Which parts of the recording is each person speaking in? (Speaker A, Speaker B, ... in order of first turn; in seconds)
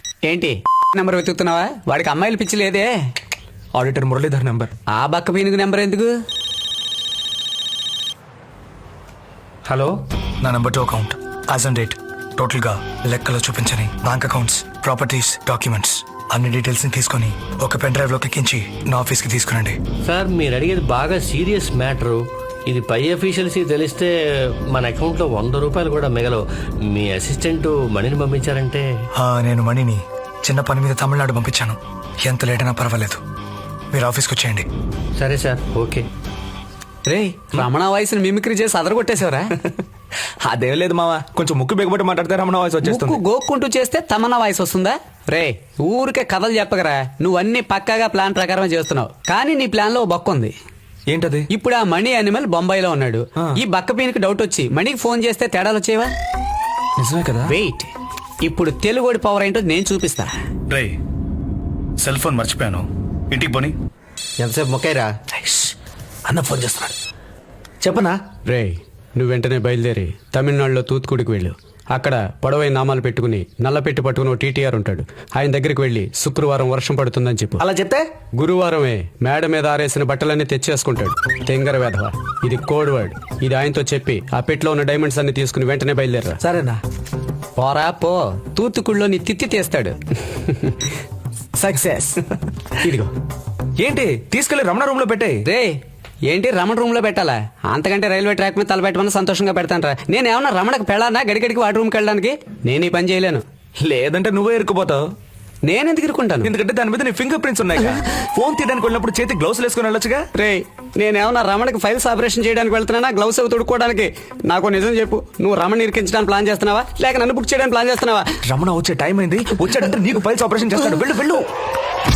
Speaker A: 0.3-2.9, 5.0-6.1, 37.1-39.5, 42.8-50.5, 51.5-56.1, 57.5-57.9, 58.4-60.3, 68.5-77.6, 78.4-86.4, 87.6-90.9, 92.8-93.1, 95.5-103.4, 105.7-106.5, 110.3-118.3
Speaker B: 3.8-4.7, 40.4-43.2, 51.1-51.5, 57.0-57.6, 65.3-65.8, 66.3-67.0, 86.4-86.8, 91.6-92.3, 93.8-95.4, 103.8-105.1, 106.4-110.3, 118.5-121.5
Speaker C: 9.7-9.9, 20.1-24.1, 24.7-28.9, 35.2-36.0
Speaker D: 10.4-19.8, 29.2-30.0, 30.5-31.8, 32.3-33.2, 33.9-34.6
Speaker E: 60.7-61.0, 62.0-63.8